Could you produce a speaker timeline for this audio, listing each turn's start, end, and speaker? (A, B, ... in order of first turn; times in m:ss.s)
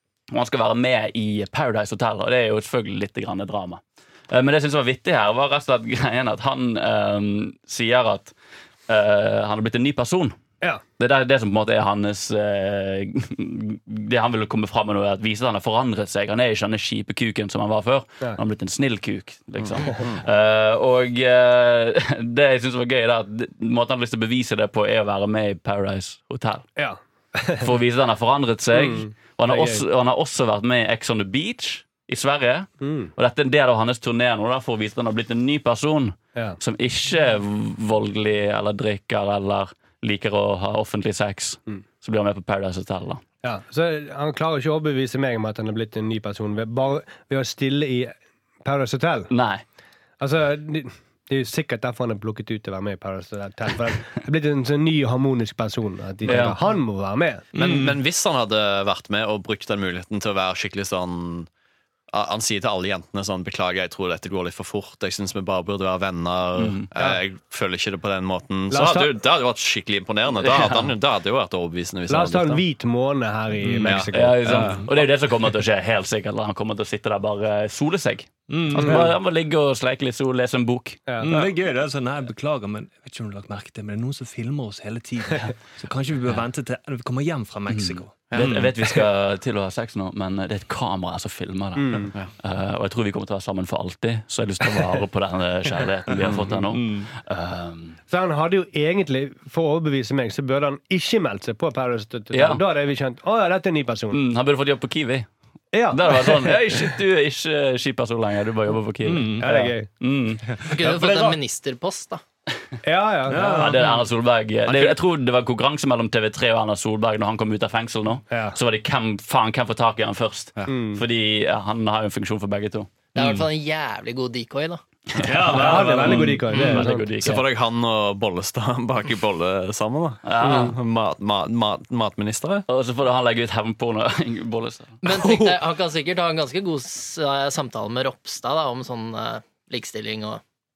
0:00.3-0:08.3 A
0:08.9-0:10.4 A
0:11.0-0:26.7 A
0:19.6-0:20.2 B
0:26.8-0:27.7 C
0:27.6-0:43.2 A
0:28.7-0:29.8 C
0:32.8-0:33.1 C
0:43.4-0:49.3 C
0:49.3-0:49.6 A
0:50.2-0:57.4 C
0:56.2-0:56.6 A
0:57.6-0:58.0 D
0:57.6-1:01.5 B
1:02.1-1:12.6 B
1:06.6-1:06.9 A
1:08.7-1:09.1 C
1:10.4-1:10.9 A
1:12.1-1:14.8 C
1:13.6-1:14.0 D
1:13.8-1:14.9 B
1:14.1-1:21.0 A
1:18.5-1:19.0 D
1:18.8-1:19.1 C
1:21.1-1:21.5 C
1:21.2-1:29.0 D
1:27.7-1:38.0 A
1:31.8-1:32.1 C
1:36.2-1:36.6 B
1:36.7-1:37.1 D
1:38.1-1:44.2 C
1:42.3-1:42.6 A
1:44.1-1:45.3 A
1:45.7-1:46.9 C
1:45.9-1:50.4 A
1:49.0-1:49.5 D
1:49.4-1:49.9 C
1:50.5-1:51.4 D
1:50.6-1:52.2 E
1:52.8-1:53.6 C
1:53.3-1:54.0 D
1:53.5-2:03.4 A
1:54.7-1:55.0 B
1:58.3-1:58.6 C
2:00.7-2:01.0 C
2:03.2-2:04.8 E
2:05.1-2:07.4 A
2:05.2-2:06.8 D
2:05.5-2:07.1 C
2:07.2-2:12.6 B
2:10.2-2:10.8 A
2:10.4-2:10.7 C
2:12.7-2:15.0 A
2:15.0-2:20.4 E